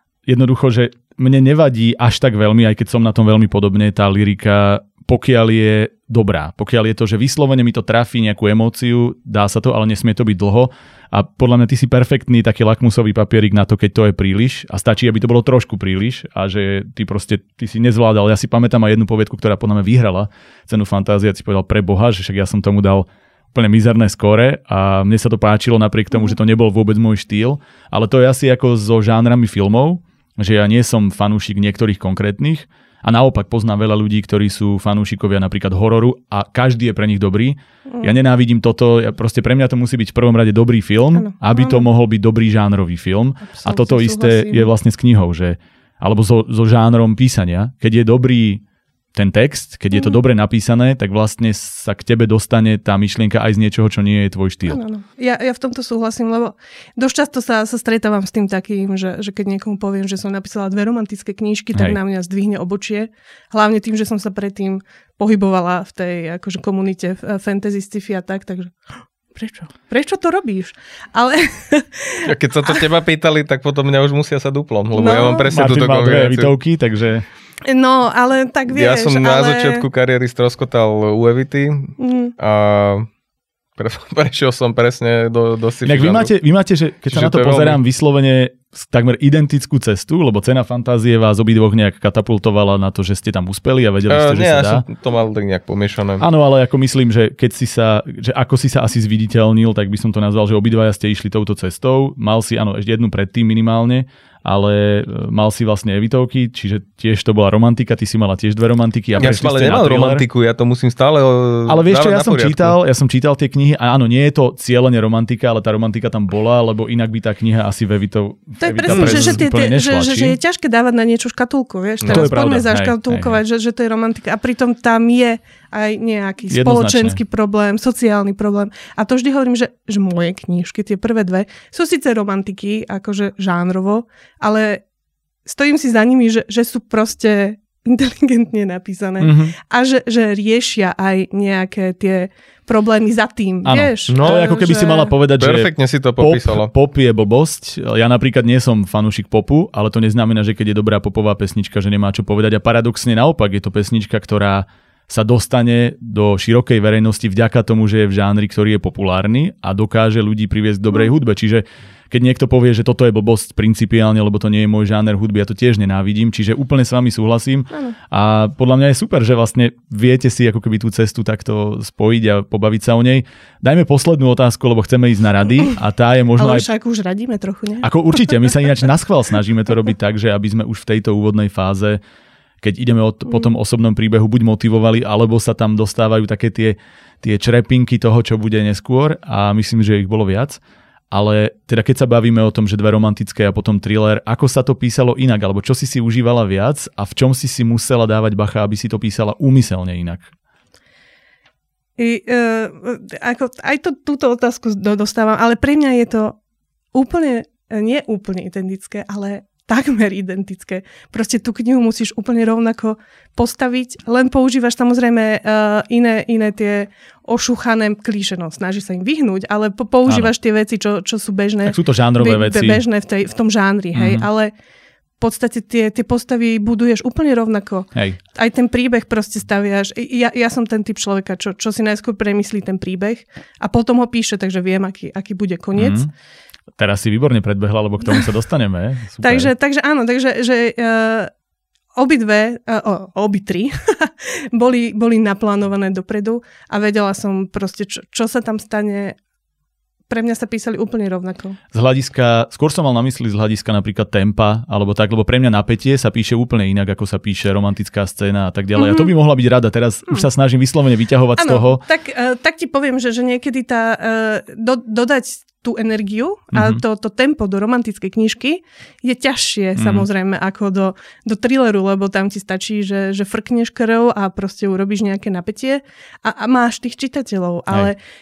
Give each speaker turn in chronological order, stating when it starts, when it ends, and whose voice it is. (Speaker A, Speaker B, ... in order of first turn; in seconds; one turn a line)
Speaker A: 0.3-48.6
Speaker B: 41.1-41.9
Speaker B: 43.5-44.7
Speaker A: 49.1-54.8
Speaker B: 49.9-50.2
Speaker B: 54.7-68.8
Speaker B: 69.3-72.8
Speaker C: 72.2-76.5
Speaker B: 74.9-75.5
Speaker A: 75.5-77.2
Speaker B: 77.6-79.8
Speaker C: 78.7-83.1
Speaker B: 82.0-82.3
Speaker C: 83.8-86.3
Speaker A: 85.8-94.8
Speaker C: 87.1-87.8
Speaker C: 94.1-96.2
Speaker A: 96.2-110.2
Speaker C: 109.2-112.8
Speaker A: 111.7-120.4
Speaker B: 118.6-134.8
Speaker C: 118.9-119.3
Speaker C: 122.0-122.3
Speaker A: 122.1-123.4
Speaker A: 126.5-127.2
Speaker B: 135.4-145.1
Speaker A: 139.2-139.5
Speaker A: 143.6-176.7
Speaker C: 144.1-144.4
Speaker C: 145.4-146.7
Speaker B: 167.7-167.9
Speaker B: 176.4-178.5
Speaker A: 177.8-182.0
Speaker A: 182.6-190.6
Speaker A: 191.1-200.3
Speaker B: 202.0-206.3
Speaker B: 206.9-224.5
Speaker A: 220.1-220.3
Speaker A: 221.6-222.8
Speaker A: 223.9-224.3
Speaker B: 225.2-236.0
Speaker A: 235.8-236.1
Speaker A: 236.8-239.5
Speaker B: 239.2-241.3
Speaker B: 241.9-249.2
Speaker B: 250.1-251.6
Speaker A: 251.7-261.8
Speaker B: 258.7-259.1
Speaker B: 261.4-278.0
Speaker A: 266.5-266.8
Speaker A: 269.8-270.1